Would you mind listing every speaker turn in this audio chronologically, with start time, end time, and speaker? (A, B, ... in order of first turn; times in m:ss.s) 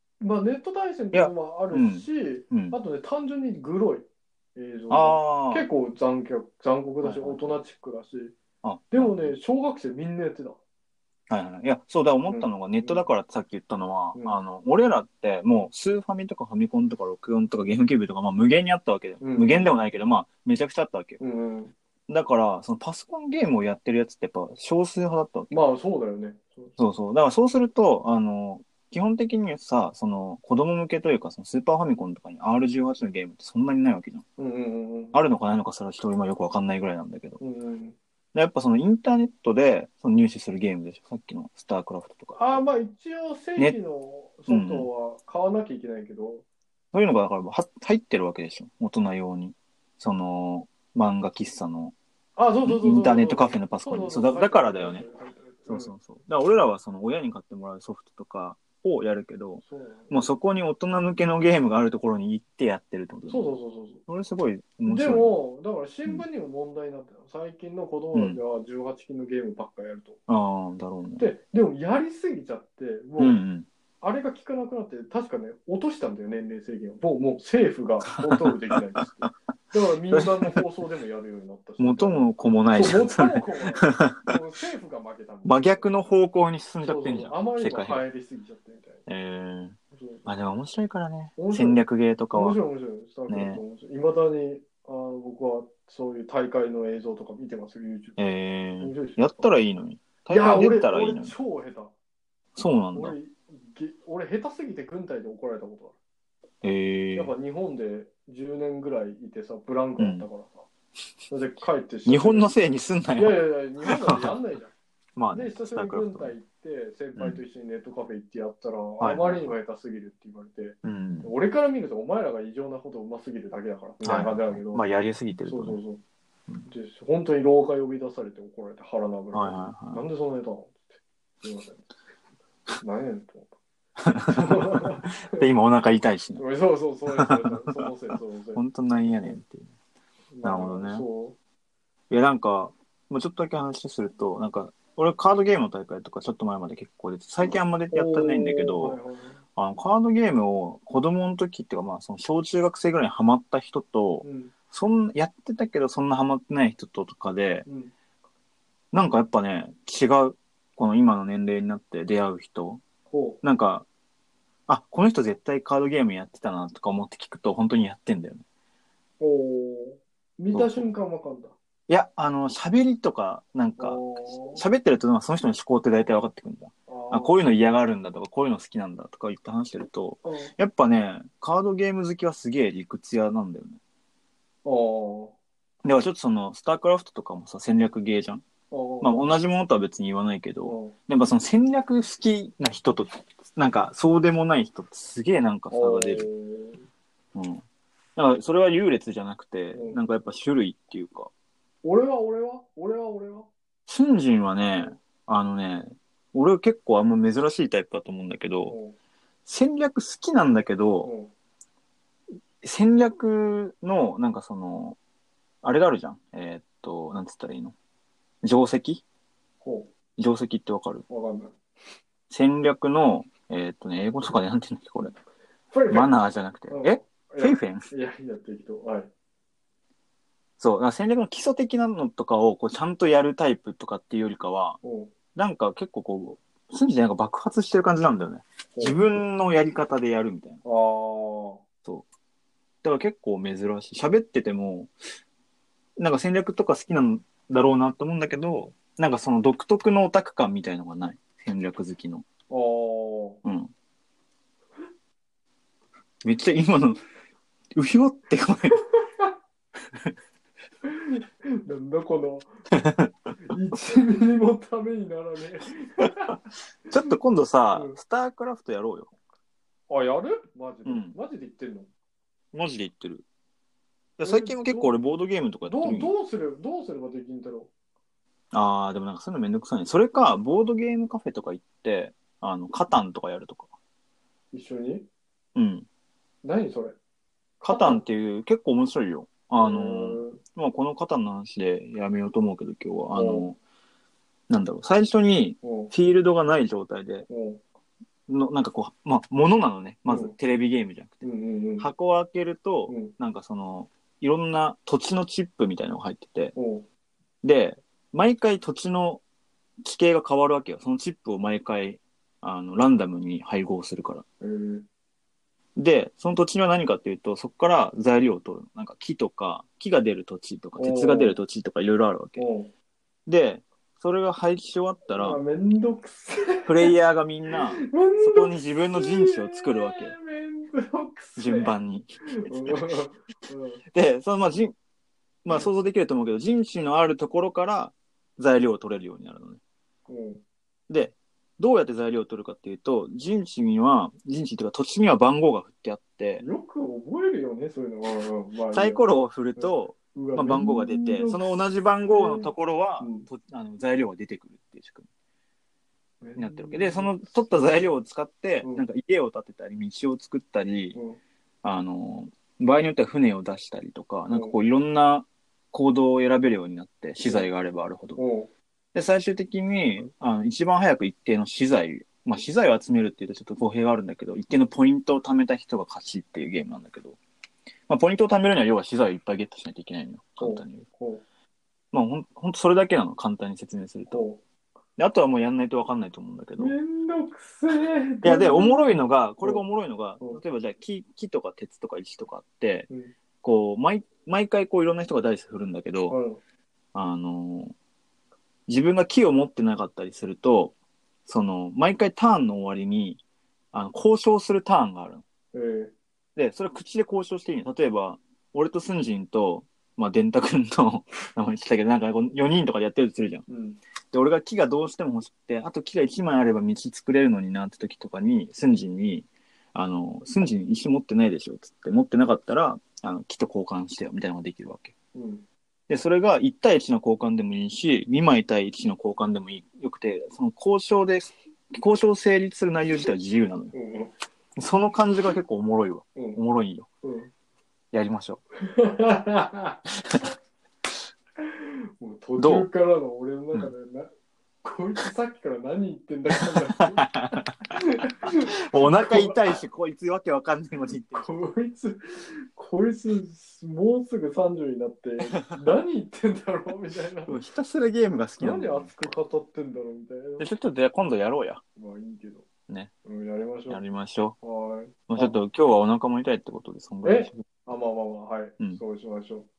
0:00.2-0:08.4 A
0:01.1-0:02.8 B
0:04.9-0:05.7 B
0:07.0-0:07.6 B
0:08.6-0:09.3 B
0:08.9-0:10.6 A
0:11.3-0:21.2 B
0:12.3-0:13.0 A
0:14.1-0:14.4 A
0:19.2-0:19.7 A
0:21.2-0:21.7 A
0:22.1-0:25.6 B
0:25.5-0:26.8 A
0:26.8-0:34.2 B
0:34.4-0:35.2 A
0:35.1-0:37.4 B
0:37.4-0:38.0 A
0:38.3-0:42.6 B
0:42.4-0:46.4 A
0:44.5-0:44.9 B
0:46.9-0:51.9 B
0:52.4-0:55.9 A
0:52.6-0:55.0 B
0:55.7-1:03.5 B
0:59.6-1:00.3 A
1:03.3-1:04.0 A
1:04.1-1:05.3 B
1:04.8-1:10.2 A
1:08.1-1:08.4 B
1:10.3-1:11.3 B
1:11.2-1:13.4 A
1:13.2-1:13.7 B
1:14.0-1:25.9 A
1:18.2-1:19.3 B
1:20.1-1:20.6 B
1:21.8-1:24.3 B
1:25.4-1:28.0 B
1:26.8-1:29.0 A
1:29.1-1:32.6 B
1:29.9-1:30.2 A
1:31.4-1:31.8 A
1:32.3-1:38.2 A
1:33.3-1:33.6 B
1:38.2-1:41.3 B
1:38.8-1:39.5 A
1:40.3-1:41.9 A
1:42.6-1:43.2 B
1:42.9-1:45.9 A
1:46.6-1:47.3 B
1:47.1-1:50.6 A
1:50.0-1:50.3 B
1:51.3-1:52.5 A
1:52.0-1:54.4 B
1:53.2-1:54.7 A
1:55.2-1:56.3 B
1:55.3-2:04.8 A
1:59.0-1:59.5 B
2:00.8-2:01.3 B
2:04.0-2:05.8 B
2:05.4-2:06.0 A
2:06.7-2:10.9 A
2:09.3-2:10.0 B
2:11.4-2:11.8 A
2:12.8-2:13.5 A
2:14.0-2:16.4 B
2:14.3-2:15.5 A
2:16.4-2:19.4 A
2:17.2-2:19.7 B
2:20.3-2:21.4 A
2:20.4-2:21.0 B
2:22.1-2:29.0 B
2:27.9-2:29.4 A
2:29.6-2:37.6 B
2:34.2-2:34.5 A
2:37.7-2:37.9 A
2:38.9-2:42.8 B
2:43.1-2:43.4 A
2:43.4-2:43.8 B
2:44.7-2:48.4 B
2:49.2-2:51.5 A
2:50.5-2:50.8 B
2:51.9-3:03.8 B
2:53.8-2:54.6 A
2:56.9-2:57.6 A
3:00.2-3:00.5 A
3:04.6-3:05.3 A
3:05.8-3:08.4 B
3:08.7-3:09.3 A
3:09.0-3:16.3 B
3:10.6-3:10.9 A
3:15.7-3:16.8 A
3:17.3-3:17.6 B
3:18.2-3:21.3 B
3:19.7-3:20.0 A
3:21.8-3:23.5 A
3:23.9-3:28.8 B
3:28.6-3:29.0 A
3:29.4-3:31.1 B
3:31.0-3:31.3 A
3:32.6-3:35.0 B
3:35.6-3:37.7 B
3:38.4-3:39.0 B
3:39.6-3:39.9 A
3:40.2-3:41.0 B
3:41.1-3:41.6 A
3:42.3-3:45.1 B
3:45.7-3:46.1 A
3:45.9-3:47.9 B
3:46.7-3:49.1 A
3:50.6-3:54.8 B
3:54.8-3:55.1 A
3:55.3-4:00.6 B
3:58.7-3:59.2 A
4:00.6-4:01.6 A
4:02.8-4:04.9 B
4:06.0-4:12.2 B
4:12.5-4:13.4 A
4:13.4-4:13.7 B
4:16.2-4:17.0 B
4:17.7-4:18.8 B
4:18.9-4:19.3 A
4:20.8-4:22.5 A
4:22.7-4:23.1 B
4:23.5-4:26.4 A
4:26.0-4:26.3 B
4:26.9-4:29.1 B
4:27.7-4:28.0 A
4:29.9-4:31.9 A
4:30.8-4:31.1 B
4:32.5-4:33.2 B
4:34.2-4:36.1 B
4:34.2-4:34.9 A
4:35.6-4:37.7 A
4:38.5-4:43.7 B
4:44.5-4:45.1 A
4:45.5-4:45.8 B
4:46.4-4:47.0 A
4:47.6-4:48.0 A
4:47.6-4:53.6 B
4:49.5-4:50.4 A
4:53.1-4:53.5 A
4:54.5-4:57.3 B
4:55.6-4:55.9 A
4:57.3-4:57.6 A
4:58.3-5:01.2 B
5:00.1-5:00.3 A
5:01.2-5:01.9 A
5:01.8-5:06.5 B
5:02.9-5:03.1 A
5:06.5-5:06.8 A
5:07.4-5:09.2 B
5:09.8-5:14.2 B
5:14.4-5:14.8 A
5:15.8-5:22.4 B
5:20.8-5:21.4 A
5:22.4-5:22.7 A
5:23.3-5:25.4 B
5:25.1-5:26.9 A
5:26.6-5:30.1 B
5:27.8-5:31.7 A
5:31.4-5:33.0 B
5:32.2-5:33.8 A
5:33.9-5:34.7 B
5:35.4-5:39.6 B
5:40.1-5:40.4 A
5:40.9-5:46.4 B
5:46.4-5:49.0 A
5:48.7-5:55.1 B
5:49.6-5:51.5 A
5:52.1-5:53.3 A
5:56.2-5:57.9 A
5:56.4-6:01.0 B
6:00.9-6:01.2 A
6:01.6-6:08.2 B
6:04.3-6:04.6 A
6:07.2-6:07.5 A
6:08.2-6:08.5 A
6:08.9-6:17.2 B
6:17.9-6:20.8 B
6:20.4-6:21.2 A
6:21.9-6:24.3 B
6:24.1-6:24.4 A
6:25.0-6:26.7 B
6:26.6-6:29.6 A
6:28.2-6:32.9 B
6:33.4-6:36.2 B
6:36.1-6:36.4 A
6:36.9-6:37.7 B
6:38.7-6:40.7 B
6:41.2-6:43.2 B
6:43.7-6:45.2 B
6:45.5-6:45.9 A
6:46.4-6:53.4 B
6:53.5-6:53.8 A
6:54.1-7:04.9 B
7:05.1-7:05.4 A
7:05.9-7:13.7 B
7:13.7-7:14.1 A
7:14.6-7:16.9 B
7:17.0-7:17.3 A
7:17.9-7:18.4 B
7:18.6-7:19.8 A
7:21.4-7:24.1 A
7:22.4-7:22.7 B
7:24.6-7:27.1 A
7:26.5-7:27.7 B
7:27.7-7:29.6 A
7:28.5-7:31.3 B
7:31.1-7:37.4 A
7:35.2-7:35.5 B
7:37.3-7:39.1 B
7:38.4-7:40.4 A
7:40.4-7:41.6 B
7:41.8-7:42.5 A
7:43.0-7:43.8 A
7:43.7-7:44.4 B
7:44.4-7:45.4 A
7:45.1-7:47.4 B
7:47.0-7:49.5 A